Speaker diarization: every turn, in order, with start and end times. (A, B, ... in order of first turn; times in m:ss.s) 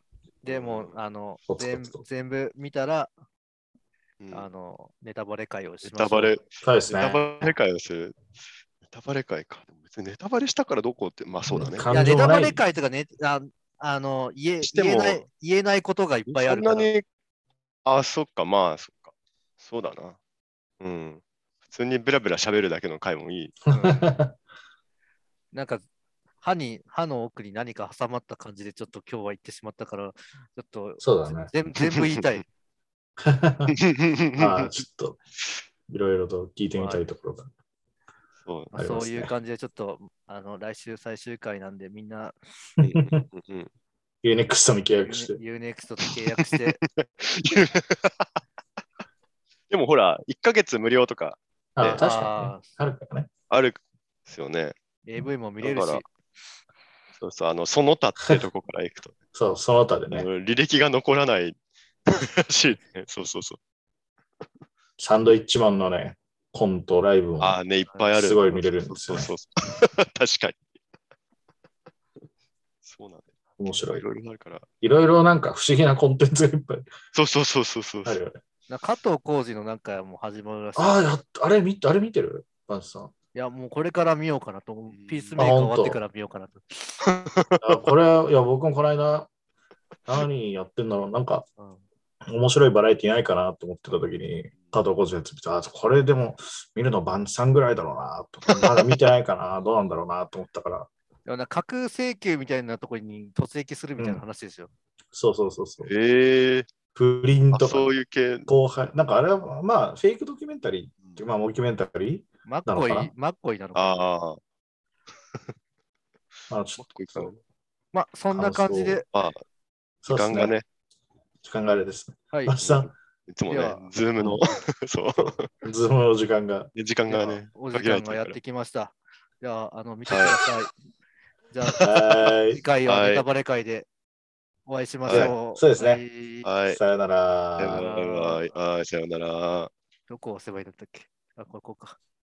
0:00.4-0:03.1 A
0:00.4-0:01.0 B
0:01.5-0:02.0 C
0:04.2-0:04.5 B
0:04.3-0:06.4 A
0:05.8-0:08.2 B
0:06.6-0:07.5 C
0:08.8-0:11.9 B
0:11.5-0:12.6 C
0:11.9-0:16.9 A
0:14.6-0:15.2 B
0:16.3-0:17.0 B
0:17.8-0:20.2 B
0:20.8-0:23.9 B
0:23.7-0:24.0 A
0:23.8-0:24.4 C
0:25.5-0:25.8 A
0:26.4-0:32.4 A
0:31.0-0:31.5 C
0:33.2-0:33.8 C
0:33.8-0:34.8 B
0:34.3-0:35.2 C
0:35.9-0:37.5 C
0:36.7-0:37.0 A
0:38.4-0:38.7 B
0:38.7-0:42.4 A
0:38.7-0:39.3 C
0:42.8-0:43.2 C
0:42.8-0:43.7 B
0:44.2-0:45.4 C
0:45.0-0:46.8 A
0:46.0-0:48.3 B
0:49.7-0:52.0 B
0:51.8-0:53.3 C
0:51.8-0:52.6 A
0:53.5-0:54.7 B
0:55.0-0:56.1 A
0:55.6-0:56.0 B
0:57.2-0:59.1 B
0:59.3-1:00.3 C
1:00.1-1:01.6 B
1:02.1-1:03.6 B
1:05.0-1:07.6 C
1:07.4-1:10.6 B
1:08.1-1:09.3 C
1:12.8-1:14.6 B
1:13.6-1:14.0 C
1:14.8-1:16.9 C
1:17.1-1:18.2 B
1:18.0-1:18.4 C
1:18.7-1:21.1 A
1:20.8-1:23.1 C
1:23.3-1:27.0 A
1:24.9-1:25.4 B
1:25.4-1:26.0 C
1:27.0-1:27.6 B
1:27.6-1:29.3 C
1:30.1-1:31.5 C
1:32.2-1:40.9 C
1:41.2-1:44.7 A
1:44.0-1:44.2 C
1:45.1-1:45.9 C
1:45.8-1:46.7 B
1:47.0-1:47.9 C
1:47.5-1:48.5 B
1:48.5-1:53.1 C
1:52.4-1:54.0 A
1:53.7-1:54.4 B
1:56.5-1:57.3 C
1:56.8-1:57.4 B
1:57.9-1:59.1 A
1:58.3-1:59.0 C
1:59.1-1:59.4 B
2:00.0-2:00.5 C
2:00.1-2:00.6 B
2:01.4-2:02.9 C
2:02.6-2:05.5 B
2:03.5-2:03.9 A
2:05.6-2:06.7 C
2:06.7-2:08.4 B
2:07.1-2:10.7 A
2:10.0-2:10.4 B
2:11.5-2:13.9 A
2:11.8-2:12.6 C
2:12.8-2:13.2 B
2:14.6-2:16.5 A
2:15.1-2:16.0 C
2:15.1-2:15.3 B
2:16.4-2:16.8 B
2:16.7-2:17.8 C
2:17.6-2:19.7 B
2:17.7-2:18.5 A
2:20.1-2:22.0 A